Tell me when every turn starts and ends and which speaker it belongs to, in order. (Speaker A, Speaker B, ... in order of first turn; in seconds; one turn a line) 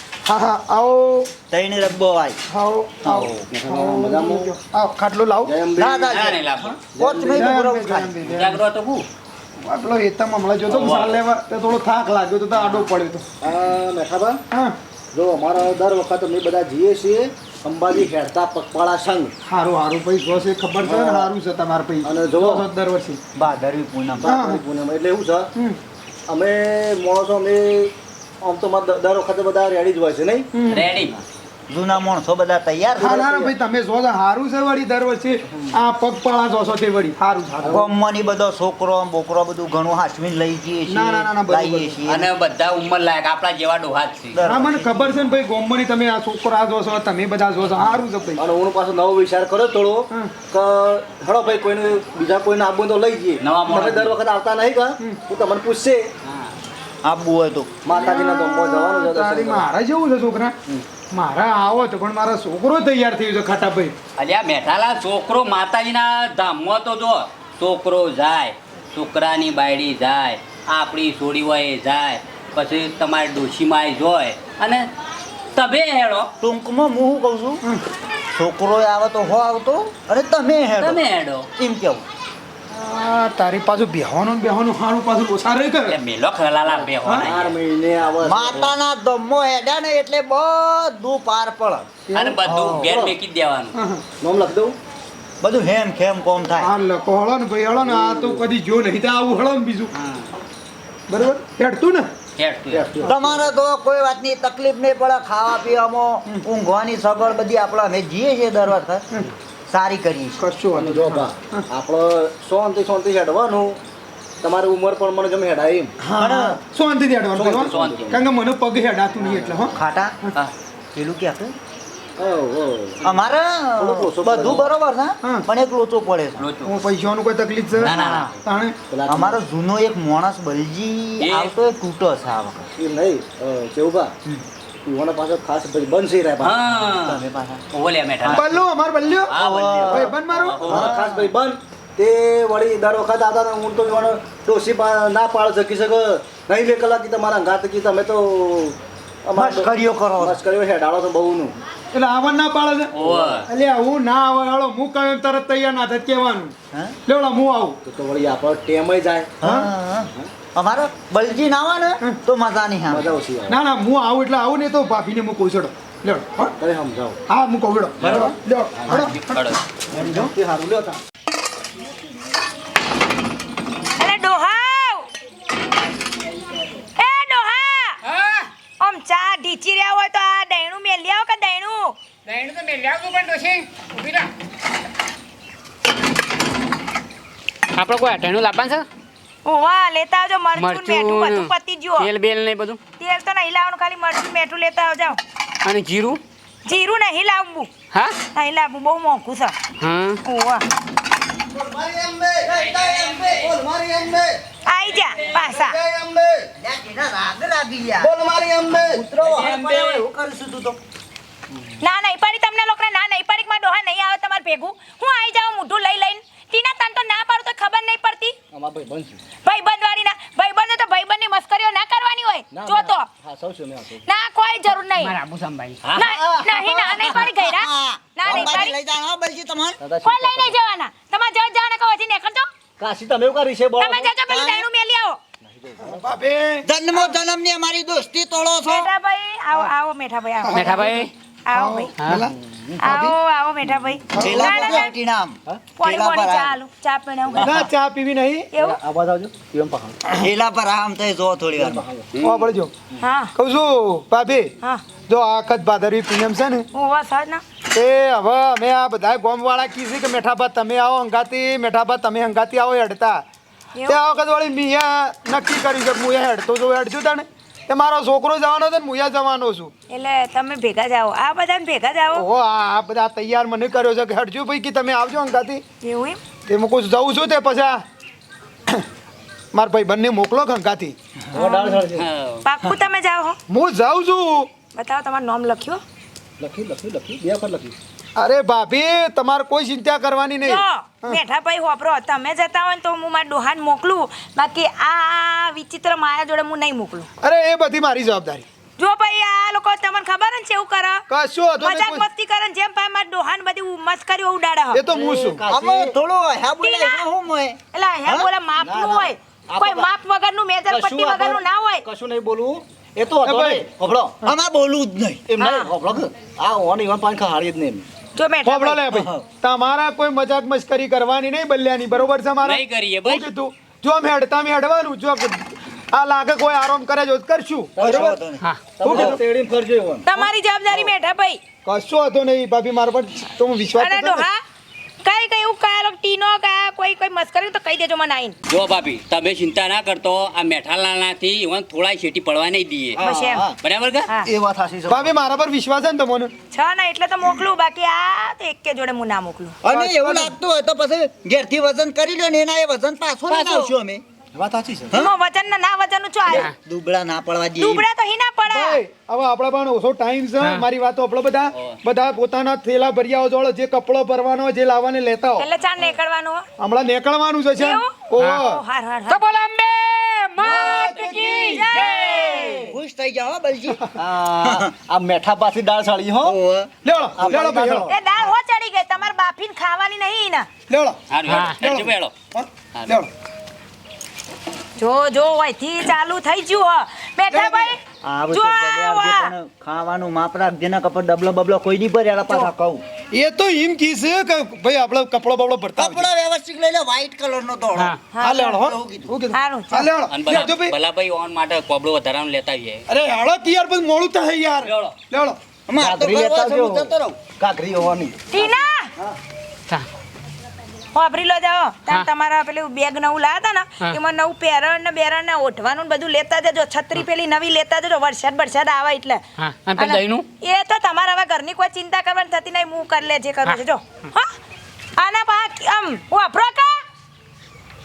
Speaker A: 0.3-1.3
Speaker B: 1.5-2.4
Speaker A: 2.5-5.5
Speaker C: 3.0-3.5
Speaker D: 3.5-4.5
Speaker D: 5.4-6.1
Speaker B: 5.8-8.2
Speaker C: 6.1-6.8
Speaker D: 6.9-7.5
Speaker A: 7.2-8.6
Speaker C: 8.2-9.1
Speaker A: 9.6-13.2
Speaker C: 10.7-11.2
Speaker C: 12.5-12.9
Speaker D: 13.4-14.4
Speaker D: 15.1-19.3
Speaker A: 19.5-23.2
Speaker D: 20.8-21.3
Speaker D: 22.0-22.7
Speaker B: 23.4-24.3
Speaker D: 24.2-25.5
Speaker A: 24.2-24.6
Speaker D: 26.3-30.5
Speaker A: 30.6-30.9
Speaker C: 30.7-31.1
Speaker B: 31.7-33.3
Speaker D: 33.0-33.5
Speaker A: 33.0-37.8
Speaker D: 35.5-35.8
Speaker D: 37.6-37.9
Speaker B: 37.7-42.3
Speaker A: 40.9-42.0
Speaker C: 42.1-44.4
Speaker B: 44.3-45.2
Speaker A: 44.5-48.4
Speaker D: 48.4-56.1
Speaker C: 53.4-54.2
Speaker C: 56.2-56.5
Speaker B: 57.0-57.8
Speaker D: 57.9-59.7
Speaker A: 57.9-60.5
Speaker A: 61.1-63.9
Speaker C: 64.2-74.9
Speaker C: 75.5-76.3
Speaker B: 76.4-77.6
Speaker B: 78.3-81.0
Speaker C: 80.8-81.5
Speaker B: 81.6-82.0
Speaker A: 82.7-86.0
Speaker C: 85.9-87.6
Speaker D: 86.7-88.7
Speaker B: 88.2-91.9
Speaker A: 92.1-92.4
Speaker C: 92.1-93.7
Speaker B: 92.5-93.0
Speaker D: 92.5-93.1
Speaker A: 93.7-94.0
Speaker D: 94.2-94.8
Speaker B: 95.4-96.7
Speaker A: 96.6-99.9
Speaker D: 97.8-98.5
Speaker C: 100.0-100.3
Speaker A: 101.1-102.1
Speaker C: 102.4-102.9
Speaker D: 102.7-103.5
Speaker B: 103.1-109.1
Speaker B: 109.7-110.4
Speaker A: 110.4-111.7
Speaker D: 110.8-113.8
Speaker D: 114.4-115.9
Speaker A: 116.0-119.8
Speaker B: 116.2-116.6
Speaker D: 117.3-118.2
Speaker C: 117.7-118.1
Speaker D: 119.2-119.7
Speaker B: 119.7-120.2
Speaker B: 120.9-121.5
Speaker D: 122.2-123.0
Speaker B: 123.0-126.5
Speaker D: 123.8-124.7
Speaker C: 126.4-126.7
Speaker A: 126.7-128.8
Speaker C: 127.8-128.4
Speaker B: 127.8-128.3
Speaker D: 128.9-129.4
Speaker B: 129.1-132.7
Speaker C: 131.2-131.5
Speaker D: 132.8-134.1
Speaker D: 134.9-136.6
Speaker C: 136.4-137.2
Speaker B: 136.8-137.7
Speaker C: 137.7-138.5
Speaker A: 138.3-139.3
Speaker C: 139.3-140.9
Speaker D: 139.4-151.6
Speaker A: 139.9-140.6
Speaker B: 140.6-141.3
Speaker B: 149.3-150.4
Speaker A: 151.9-156.5
Speaker C: 152.9-153.5
Speaker D: 153.0-153.4
Speaker A: 157.1-157.8
Speaker D: 157.8-159.4
Speaker B: 159.4-163.1
Speaker D: 162.9-163.6
Speaker A: 163.5-166.6
Speaker D: 166.6-167.2
Speaker A: 167.3-170.3
Speaker C: 168.0-168.3
Speaker D: 168.0-169.2
Speaker C: 168.9-169.6
Speaker D: 169.9-171.0
Speaker E: 174.0-175.1
Speaker E: 177.0-178.0
Speaker F: 178.0-178.5
Speaker E: 178.8-181.9
Speaker F: 182.3-184.3
Speaker F: 187.8-188.8
Speaker E: 189.4-192.1
Speaker F: 190.6-192.8
Speaker E: 193.0-195.2
Speaker F: 195.7-196.2
Speaker E: 196.7-197.7
Speaker E: 198.3-199.6
Speaker F: 199.8-200.2
Speaker E: 200.2-200.7
Speaker D: 201.5-204.4
Speaker E: 204.7-205.8
Speaker D: 205.3-206.5
Speaker B: 206.6-208.1
Speaker D: 208.0-209.0
Speaker B: 208.8-210.8
Speaker C: 209.2-210.0
Speaker E: 211.8-218.3
Speaker D: 218.5-219.2
Speaker E: 219.4-223.1
Speaker D: 222.5-224.0
Speaker E: 224.1-225.2
Speaker F: 225.0-225.8
Speaker D: 225.8-227.2
Speaker E: 226.0-228.8
Speaker B: 226.8-229.8
Speaker D: 228.3-228.6
Speaker D: 229.8-230.6
Speaker E: 230.0-232.5
Speaker D: 232.8-234.1
Speaker E: 233.8-235.2
Speaker B: 234.3-234.7
Speaker D: 235.4-236.1
Speaker A: 235.8-236.7
Speaker B: 236.7-238.9
Speaker E: 238.7-240.9
Speaker A: 240.4-242.3
Speaker F: 240.5-241.1
Speaker E: 241.5-241.9
Speaker F: 242.0-242.2
Speaker D: 242.2-242.8
Speaker E: 242.8-244.9
Speaker A: 242.9-243.1
Speaker A: 244.1-244.8
Speaker B: 244.2-246.6
Speaker E: 245.8-247.5
Speaker A: 247.4-248.5
Speaker E: 248.5-248.8
Speaker D: 248.6-250.0
Speaker B: 250.2-251.8
Speaker D: 251.6-252.4
Speaker A: 252.2-252.7
Speaker E: 253.0-253.3
Speaker A: 253.4-254.5
Speaker A: 255.1-256.6
Speaker E: 256.7-257.4
Speaker A: 257.8-263.2
Speaker A: 263.9-269.7
Speaker E: 269.9-272.2
Speaker A: 272.1-275.6
Speaker E: 275.8-276.2
Speaker A: 276.5-277.8
Speaker A: 279.5-280.9
Speaker D: 281.3-282.1
Speaker E: 281.3-281.9
Speaker C: 282.0-282.4
Speaker E: 282.4-283.4
Speaker A: 283.5-284.5
Speaker E: 284.8-285.8
Speaker D: 286.4-287.8
Speaker A: 288.2-291.2
Speaker E: 290.4-297.1
Speaker A: 297.2-298.5
Speaker E: 298.8-301.1
Speaker A: 301.1-302.1
Speaker E: 301.6-304.8
Speaker A: 304.7-305.4
Speaker D: 304.9-306.0
Speaker B: 305.5-308.3
Speaker E: 306.6-307.0
Speaker E: 307.7-311.9
Speaker D: 308.6-309.9
Speaker D: 310.7-314.2
Speaker A: 313.2-313.6
Speaker B: 314.2-315.2
Speaker D: 315.3-317.9
Speaker E: 315.4-315.7
Speaker E: 318.2-318.9
Speaker A: 318.4-328.2
Speaker B: 318.9-319.3
Speaker C: 322.4-323.3
Speaker D: 327.8-328.2
Speaker B: 327.8-328.4
Speaker D: 328.8-330.1
Speaker A: 328.8-329.2
Speaker E: 330.1-331.4
Speaker A: 331.6-334.3
Speaker E: 333.8-334.4
Speaker E: 335.0-338.4
Speaker C: 338.5-343.0
Speaker D: 343.0-343.6
Speaker E: 343.0-343.5
Speaker C: 343.6-344.1
Speaker D: 344.2-345.1
Speaker A: 344.9-346.3
Speaker E: 346.5-349.6
Speaker B: 349.6-354.0
Speaker A: 349.7-350.4
Speaker D: 353.3-353.7
Speaker D: 354.4-355.0
Speaker E: 354.9-356.5
Speaker B: 356.3-357.9
Speaker F: 356.3-356.5
Speaker E: 357.6-358.8
Speaker A: 358.5-365.5
Speaker E: 365.4-366.5
Speaker A: 366.6-368.6
Speaker E: 367.6-369.2
Speaker F: 368.2-368.4
Speaker F: 369.1-372.7
Speaker A: 370.4-371.9
Speaker E: 371.2-372.6
Speaker B: 372.6-373.8
Speaker D: 374.0-376.4
Speaker B: 374.4-374.7
Speaker B: 376.2-376.8
Speaker A: 376.8-377.9
Speaker D: 377.2-377.9
Speaker E: 377.9-380.5
Speaker A: 380.7-383.1
Speaker C: 381.1-382.1
Speaker E: 384.8-387.8
Speaker A: 387.3-387.7
Speaker B: 388.0-392.9
Speaker E: 388.3-389.3
Speaker A: 393.1-396.1
Speaker B: 395.8-399.1
Speaker E: 398.1-398.6
Speaker A: 398.2-400.8
Speaker E: 399.3-399.9
Speaker C: 400.1-402.8
Speaker A: 402.9-405.4
Speaker C: 404.6-404.9
Speaker B: 405.7-407.2
Speaker D: 405.8-409.2
Speaker E: 408.3-408.9
Speaker E: 410.9-419.2
Speaker F: 419.4-420.3
Speaker E: 419.8-424.3
Speaker E: 425.0-426.8